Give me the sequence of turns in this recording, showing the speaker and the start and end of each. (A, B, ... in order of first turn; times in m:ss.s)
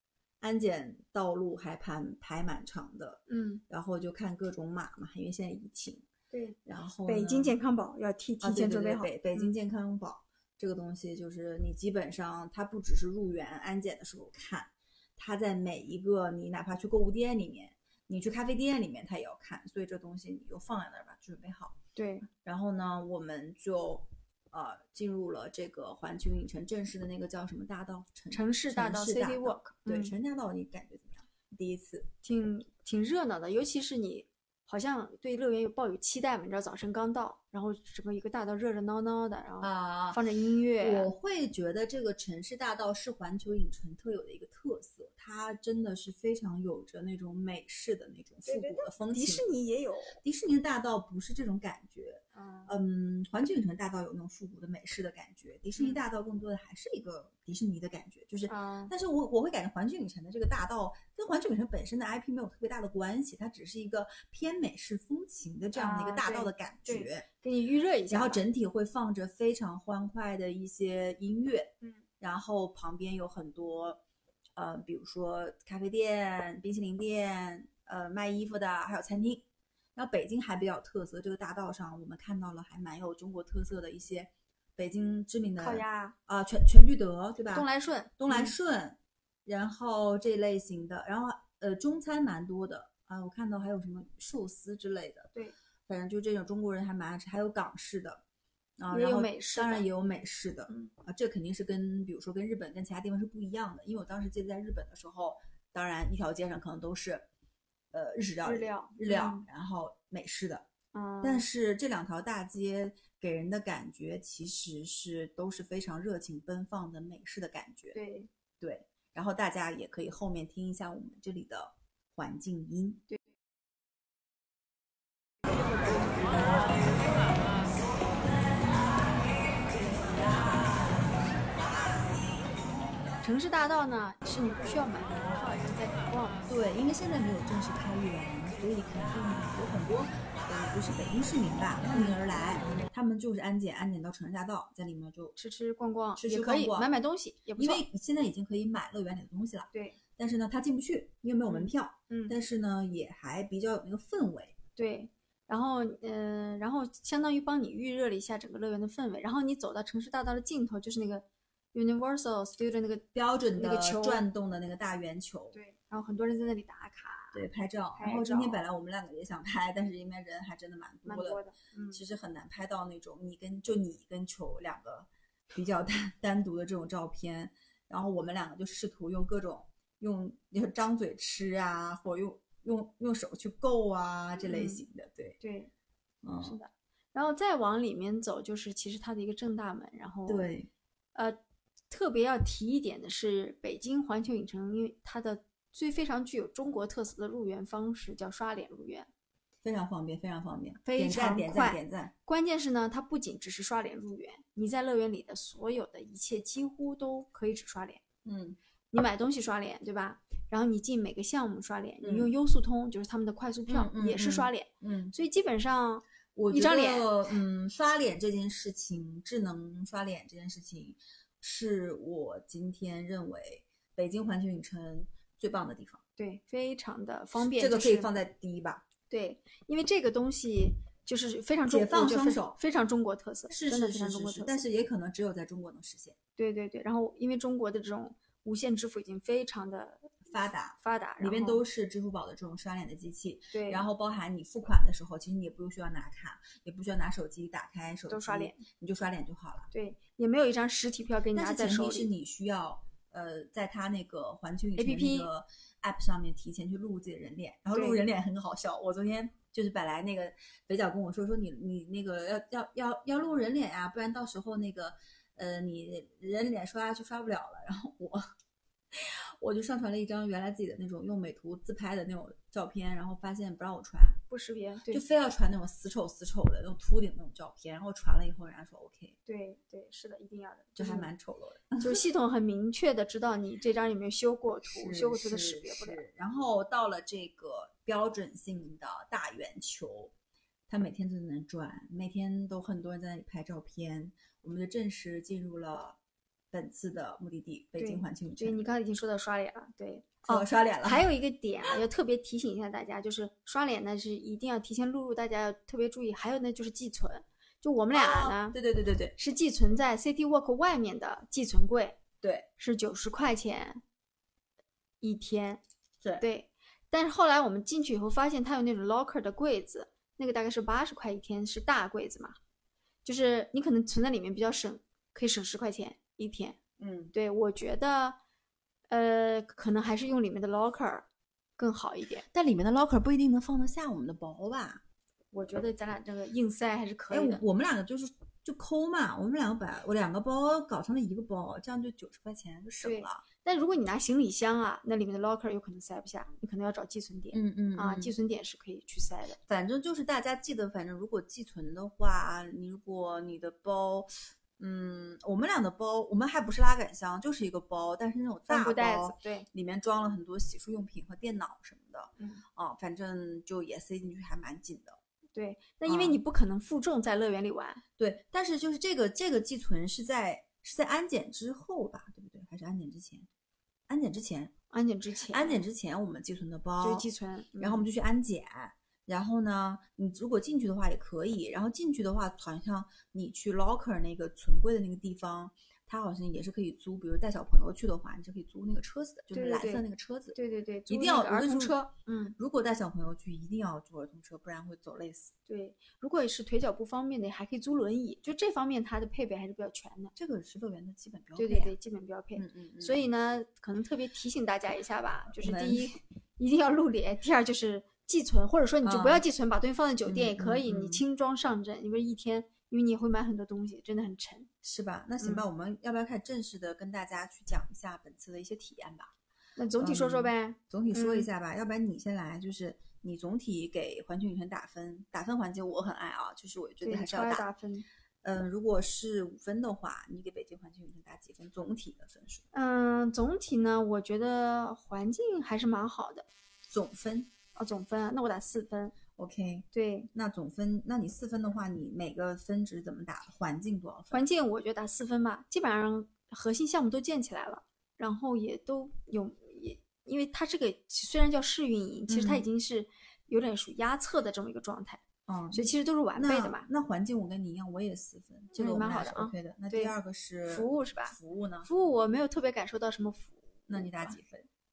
0:00.4-0:06.0 A
0:03.3-0:03.6 B
0:06.3-0:09.5 B
0:06.6-0:07.6 A
0:08.4-0:21.7 A
0:21.9-0:22.3 B
0:22.3-0:32.1 A
0:28.3-0:30.1 B
0:32.2-0:41.1 B
0:39.6-0:40.2 A
0:40.8-0:49.4 A
0:48.4-0:50.2 B
0:50.2-1:07.2 A
0:52.3-0:52.7 B
0:58.5-0:58.9 B
1:05.7-1:08.4 B
1:08.1-1:14.0 A
1:14.6-1:19.4 A
1:20.0-1:27.7 A
1:25.6-1:26.1 B
1:27.5-1:28.5 B
1:28.2-1:35.3 A
1:35.9-1:38.2 A
1:38.8-1:47.2 A
1:38.9-1:39.8 B
1:47.9-1:50.6 A
1:48.4-1:49.4 B
1:50.9-1:51.4 B
1:51.2-1:58.0 A
1:57.9-1:58.3 B
1:58.6-2:03.0 A
2:05.9-2:07.0 A
2:09.7-2:11.3 A
2:13.2-2:16.5 B
2:16.5-2:25.4 A
2:21.9-2:22.2 B
2:25.4-2:27.8 B
2:26.2-2:26.9 A
2:27.6-2:34.5 A
2:29.7-2:30.0 B
2:31.5-2:32.4 B
2:34.8-2:44.2 B
2:43.1-2:45.6 A
2:45.5-2:47.4 B
2:47.3-3:05.4 A
2:48.0-2:48.6 B
2:51.0-2:52.0 B
3:04.4-3:04.8 B
3:05.4-3:05.7 B
3:06.2-3:06.6 A
3:06.4-3:10.5 B
3:10.3-3:10.7 A
3:11.9-3:19.1 B
3:19.6-3:22.1 A
3:20.8-3:28.0 B
3:28.2-3:28.6 A
3:28.9-3:37.2 B
3:32.0-3:32.3 A
3:33.7-3:35.1 A
3:36.3-3:46.0 A
3:46.2-3:48.1 B
3:47.3-3:48.8 A
3:49.1-3:54.6 B
3:51.7-3:52.6 A
3:53.5-3:56.2 A
3:56.4-4:00.2 B
4:00.2-4:09.7 A
4:00.8-4:01.6 B
4:03.5-4:03.9 B
4:08.1-4:08.6 B
4:09.7-4:12.1 B
4:11.3-4:28.2 A
4:14.8-4:15.3 B
4:17.7-4:18.0 B
4:28.9-4:34.2 A
4:34.3-4:35.0 B
4:34.9-4:39.1 A
4:39.2-4:41.1 B
4:40.8-4:42.0 A
4:41.8-4:46.0 B
4:44.6-4:50.1 A
4:50.7-4:56.0 A
4:56.5-4:58.6 A
4:57.8-5:08.6 B
5:00.2-5:01.0 A
5:07.9-5:09.1 A
5:09.2-5:12.0 B
5:12.2-5:12.5 A
5:12.6-5:13.8 B
5:15.0-5:15.6 B
5:16.2-5:22.4 B
5:23.0-5:26.6 B
5:26.8-5:27.1 A
5:27.1-5:28.2 B
5:28.9-5:31.0 B
5:31.6-5:32.2 B
5:32.3-5:34.8 A
5:35.3-5:37.4 B
5:37.1-5:43.2 A
5:42.8-5:49.4 B
5:47.3-5:48.1 A
5:49.5-6:05.0 A
5:58.5-5:59.5 B
6:02.2-6:02.4 B
6:05.3-6:07.8 B
6:05.8-6:06.2 A
6:08.0-6:13.3 A
6:13.9-6:14.5 A
6:14.7-6:15.6 B
6:15.3-6:17.0 A
6:16.8-6:17.8 B
6:17.6-6:30.4 A
6:29.3-6:32.3 B
6:30.9-6:31.8 A
6:32.4-6:35.3 A
6:35.5-6:40.1 B
6:40.2-6:41.7 A
6:41.4-6:54.5 B
6:42.4-6:43.0 A
6:45.4-6:45.9 A
6:48.8-6:49.2 A
6:50.0-6:51.0 A
6:54.6-6:59.1 A
6:55.2-6:55.4 B
6:59.6-7:01.3 B
6:59.8-7:07.5 A
7:06.8-7:07.8 B
7:08.2-7:12.4 A
7:12.5-7:16.2 B
7:16.7-7:17.3 A
7:17.6-7:18.9 B
7:19.1-7:24.2 A
7:19.7-7:20.1 B
7:24.1-7:35.0 B
7:32.1-7:32.5 A
7:35.3-7:41.7 A
7:35.5-7:36.6 B
7:38.5-7:39.9 B
7:40.5-7:44.2 B
7:43.7-7:44.5 A